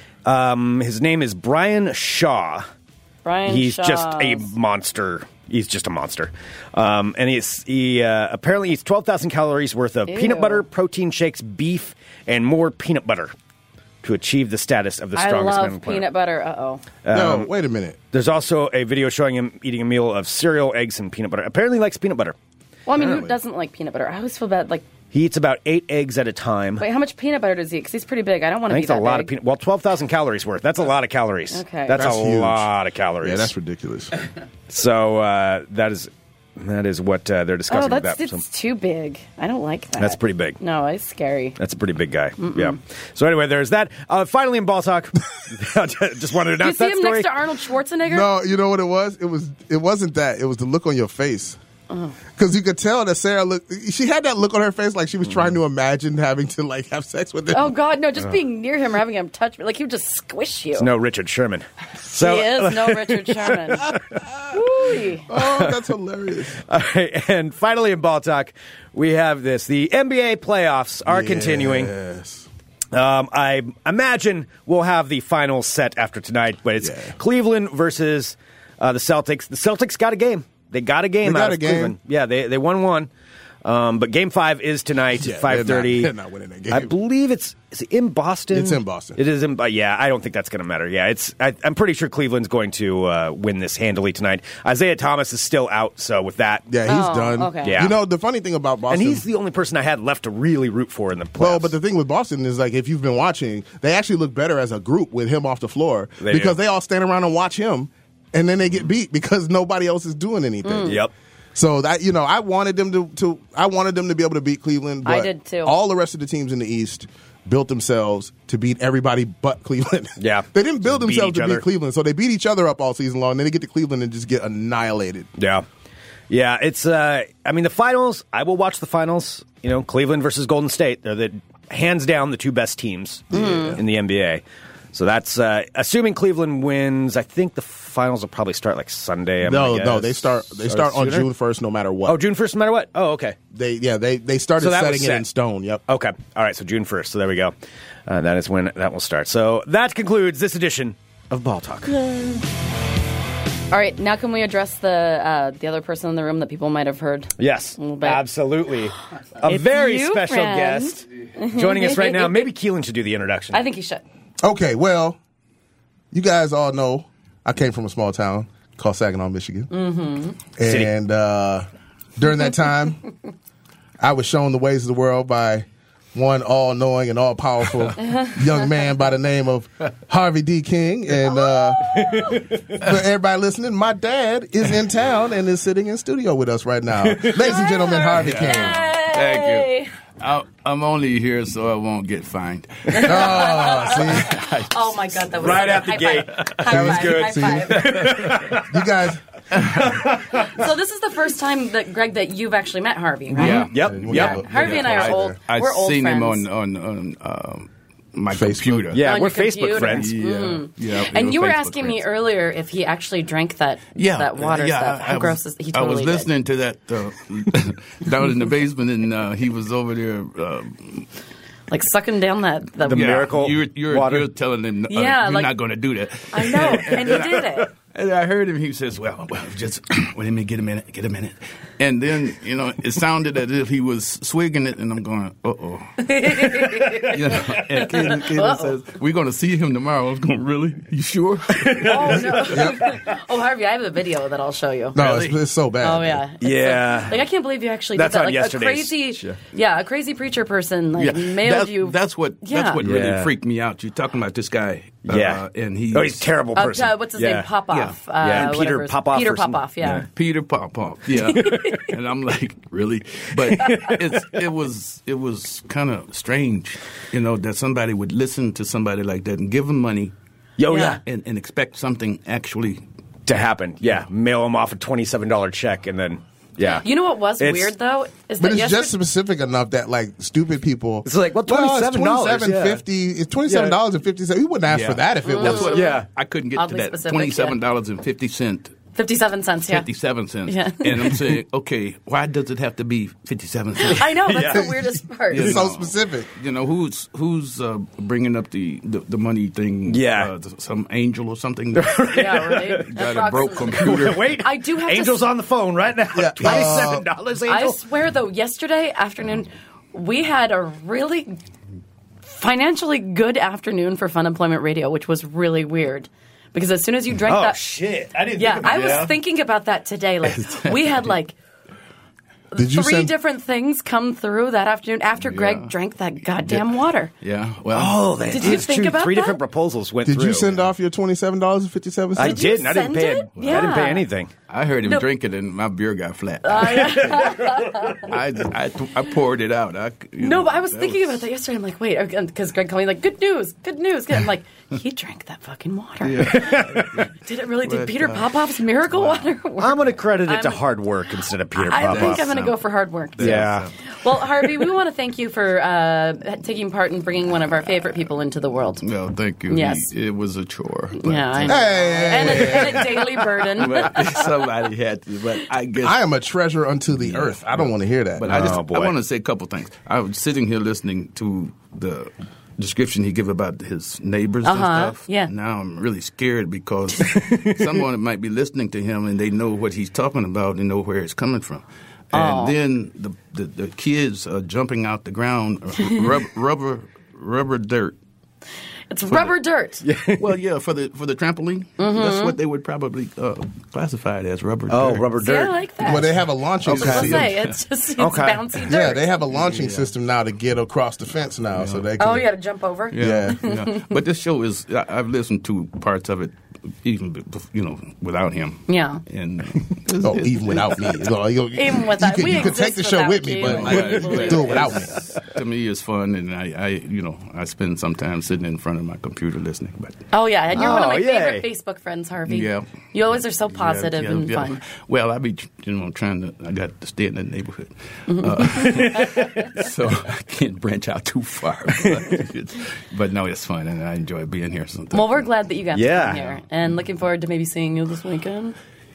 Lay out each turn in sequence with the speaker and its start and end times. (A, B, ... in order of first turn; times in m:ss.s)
0:00.2-0:02.7 A
0:03.2-0:04.5 B
0:03.5-0:13.3 A
0:10.1-0:10.6 B
0:14.0-0:16.1 A
0:15.2-0:16.8 B
0:17.0-0:17.5 A
0:17.1-0:18.0 C
0:18.1-0:22.4 A
0:22.8-0:24.9 B
0:23.0-0:23.3 C
0:25.1-0:26.8 A
0:26.8-0:29.3 B
0:28.7-0:33.5 A
0:31.5-0:32.0 B
0:31.9-0:32.7 C
0:33.2-0:34.1 C
0:34.7-0:38.4 A
0:37.7-0:41.6 B
0:40.0-0:40.6 A
0:41.6-0:47.4 A
0:42.4-0:42.8 B
0:46.6-0:48.3 B
0:48.1-0:51.6 C
0:51.9-0:52.1 B
0:52.4-0:57.7 C
0:57.5-1:00.9 B
1:00.8-1:04.0 A
1:02.1-1:03.8 B
1:04.5-1:05.3 B
1:05.3-1:06.6 C
1:05.3-1:05.8 A
1:06.7-1:11.9 A
1:11.0-1:12.5 C
1:12.9-1:23.1 A
1:16.8-1:17.1 C
1:21.2-1:21.9 C
1:23.6-1:26.1 A
1:25.2-1:26.9 C
1:26.7-1:36.7 A
1:28.5-1:29.2 C
1:36.7-1:39.2 C
1:36.8-1:37.8 B
1:37.6-1:37.9 A
1:38.9-1:41.7 A
1:41.4-1:51.0 C
1:46.2-1:46.5 A
1:50.6-1:51.0 B
1:50.8-1:51.1 A
1:51.5-2:05.3 C
1:55.0-1:55.7 B
2:00.2-2:01.6 A
2:05.4-2:05.6 A
2:06.3-2:21.3 A
2:13.3-2:13.8 B
2:13.3-2:13.7 C
2:19.4-2:22.2 C
2:22.0-2:23.4 A
2:23.5-2:25.8 C
2:24.6-2:25.2 A
2:25.9-2:27.5 A
2:28.1-2:31.9 A
2:31.9-2:32.4 B
2:33.7-2:38.2 B
2:37.4-2:43.6 A
2:39.4-2:42.5 B
2:43.5-2:44.0 B
2:44.4-2:45.2 C
2:46.1-2:49.7 C
2:49.7-2:50.4 B
2:50.6-2:51.6 C
2:50.6-2:50.9 A
2:52.2-2:53.0 C
2:54.0-3:02.0 C
3:01.3-3:02.4 B
3:01.9-3:02.6 A
3:02.7-3:08.8 C
3:07.0-3:07.5 A
3:07.4-3:09.9 B
3:08.2-3:15.7 D
3:12.9-3:18.1 B
3:13.0-3:14.4 C
3:15.4-3:18.9 A
3:16.6-3:17.7 C
3:17.8-3:18.4 D
3:18.6-3:19.2 C
3:19.5-3:19.8 D
3:19.6-3:20.6 A
3:20.3-3:26.4 B
3:23.3-3:29.0 D
3:23.4-3:24.9 A
3:23.8-3:25.2 C
3:28.3-3:28.9 C
3:28.9-3:30.1 A
3:29.0-3:36.3 B
3:29.8-3:32.0 D
3:34.0-3:41.1 D
3:41.7-3:43.3 B
3:42.9-3:44.3 A
3:42.9-3:56.1 D
3:44.9-3:45.5 B
3:46.3-3:47.7 B
3:56.0-3:57.2 B
3:56.5-3:57.6 A
3:57.1-4:02.4 D
3:58.0-3:58.7 B
4:01.6-4:02.8 A
4:01.8-4:05.0 B
4:02.5-4:02.8 C
4:04.9-4:06.2 C
4:05.0-4:05.4 D
4:05.8-4:12.8 B
4:06.4-4:07.3 A
4:07.9-4:08.9 A
4:11.0-4:16.3 D
4:12.8-4:13.3 A
4:15.1-4:17.5 A
4:16.5-4:20.0 B
4:17.7-4:18.5 D
4:18.1-4:20.1 A
4:20.1-4:30.1 D
4:21.2-4:21.9 B
4:21.4-4:21.8 A
4:23.5-4:24.4 A
4:30.6-4:31.0 A
4:30.7-4:31.0 B
4:31.0-4:32.8 D
4:33.2-4:36.9 A
4:36.6-4:38.9 B
4:37.4-4:37.7 A
4:38.4-4:45.8 C
4:41.0-4:42.8 A
4:43.4-4:43.8 A
4:44.7-4:48.8 D
4:45.2-4:46.0 B
4:45.7-4:46.0 A
4:46.5-4:47.6 B
4:48.9-4:49.9 B
4:49.7-4:54.3 D
4:50.4-4:51.2 B
4:53.8-4:55.6 B
4:54.1-4:54.6 A
4:55.3-5:02.3 D
4:55.3-4:56.3 C
4:59.9-5:00.3 A
5:01.7-5:02.9 A
5:02.1-5:05.2 B
5:02.8-5:04.4 D
5:03.7-5:07.8 A
5:06.1-5:07.0 C
5:06.4-5:06.7 B
5:07.5-5:11.4 B
5:12.2-5:17.6 B
5:17.3-5:19.1 A
5:18.4-5:21.3 B
5:18.6-5:19.1 D
5:20.2-5:21.1 D
5:22.5-5:27.1 B
5:22.5-5:23.1 C
5:25.2-5:25.7 D
5:26.4-5:28.0 D
5:27.7-5:30.5 A
5:28.3-5:29.4 B
5:30.0-5:32.4 C
5:32.2-5:34.1 B
5:32.2-5:34.3 A
5:33.4-5:33.9 D
5:34.5-5:41.2 D
5:36.4-5:38.1 B
5:40.2-5:50.6 B
5:46.0-5:49.3 D
5:46.2-5:47.0 A
5:49.6-5:52.5 A
5:51.5-5:58.8 B
5:51.8-5:52.5 D
5:53.2-5:53.7 D
5:53.2-5:53.7 A
5:58.8-6:06.0 D
5:59.5-5:59.9 B
6:01.0-6:04.3 B
6:01.4-6:02.9 C
6:05.8-6:08.5 C
6:07.0-6:28.0 D
6:08.3-6:08.9 A
6:14.4-6:15.3 B
6:17.1-6:17.7 A
6:22.1-6:22.6 B
6:28.9-6:29.8 B
6:29.8-6:30.2 A
6:30.2-6:35.1 D
6:31.8-6:32.4 B
6:34.7-6:35.6 A
6:35.2-6:39.1 B
6:35.8-6:37.3 C
6:36.6-6:37.6 D
6:38.0-6:38.4 A
6:38.7-6:42.3 C
6:39.3-6:39.9 D
6:41.6-6:42.2 D
6:42.0-6:43.8 B
6:42.9-6:51.1 D
6:43.0-6:43.4 C
6:48.7-6:49.0 B
6:50.0-6:54.9 C
6:51.5-6:54.9 B
6:53.4-7:00.0 D
7:00.1-7:04.6 B
7:00.5-7:01.4 A
7:02.3-7:02.7 D
7:03.5-7:15.3 D
7:08.1-7:08.7 B
7:08.6-7:09.5 A
7:14.9-7:18.6 B
7:15.7-7:16.2 A